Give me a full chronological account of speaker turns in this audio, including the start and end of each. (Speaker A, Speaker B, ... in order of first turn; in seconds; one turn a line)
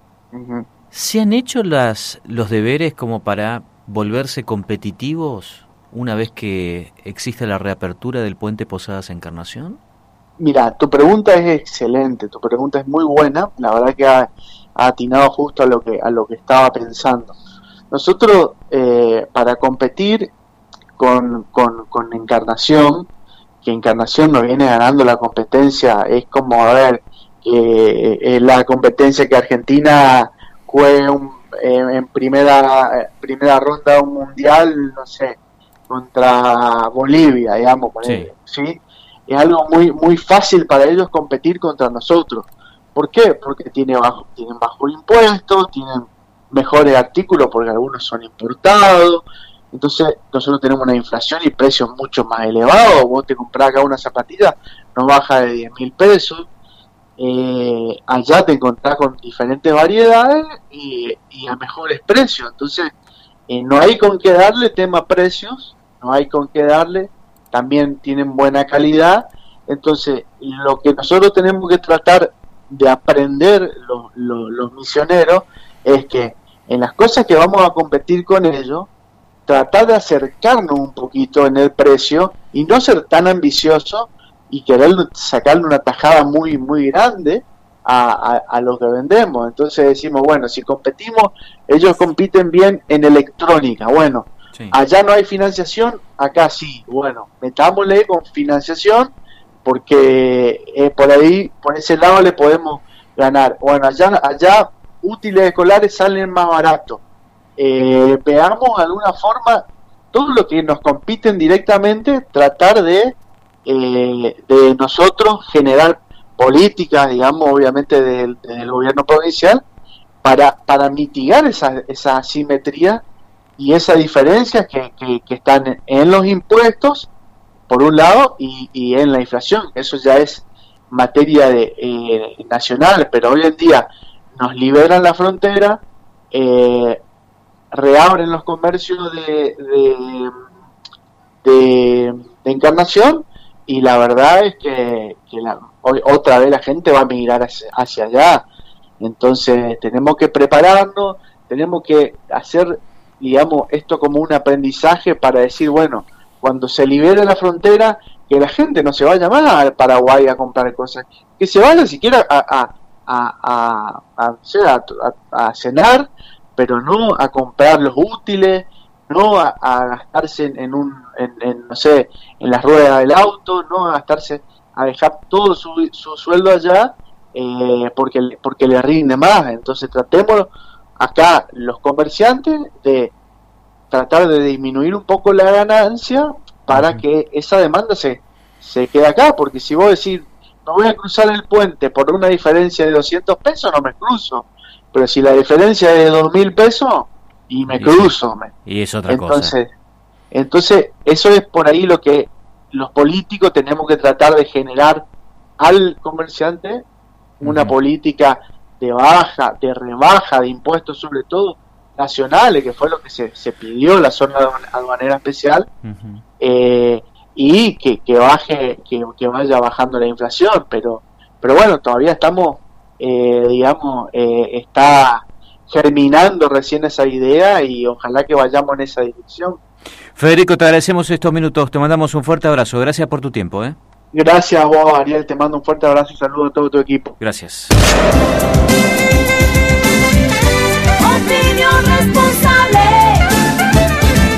Speaker A: 0.3-0.7
Speaker B: 0.9-9.8
Speaker A: 10.4-17.4
Speaker A: 17.9-20.3
Speaker A: 21.0-23.1
Speaker A: 23.6-56.5
Speaker B: 38.0-38.3
Speaker A: 57.2-62.9
Speaker A: 63.5-78.9
Speaker A: 79.5-99.1
Speaker A: 99.6-107.0
Speaker A: 107.6-119.6
Speaker A: 120.2-123.0
Speaker A: 123.6-127.1
Speaker A: 127.7-137.0
Speaker A: 137.7-140.3
Speaker A: 141.4-148.4
Speaker A: 149.0-183.1
Speaker A: 183.9-198.5
Speaker B: 186.7-187.0
Speaker B: 197.7-198.1
Speaker B: 198.7-199.5
Speaker A: 199.1-199.7
Speaker A: 200.3-205.1
Speaker A: 205.6-206.8
Speaker A: 207.4-215.7
Speaker B: 207.4-207.7
Speaker B: 215.8-216.2
Speaker A: 216.4-229.6
Speaker B: 230.1-233.8
Speaker A: 234.1-237.2
Speaker B: 237.2-237.7
Speaker C: 241.0-243.2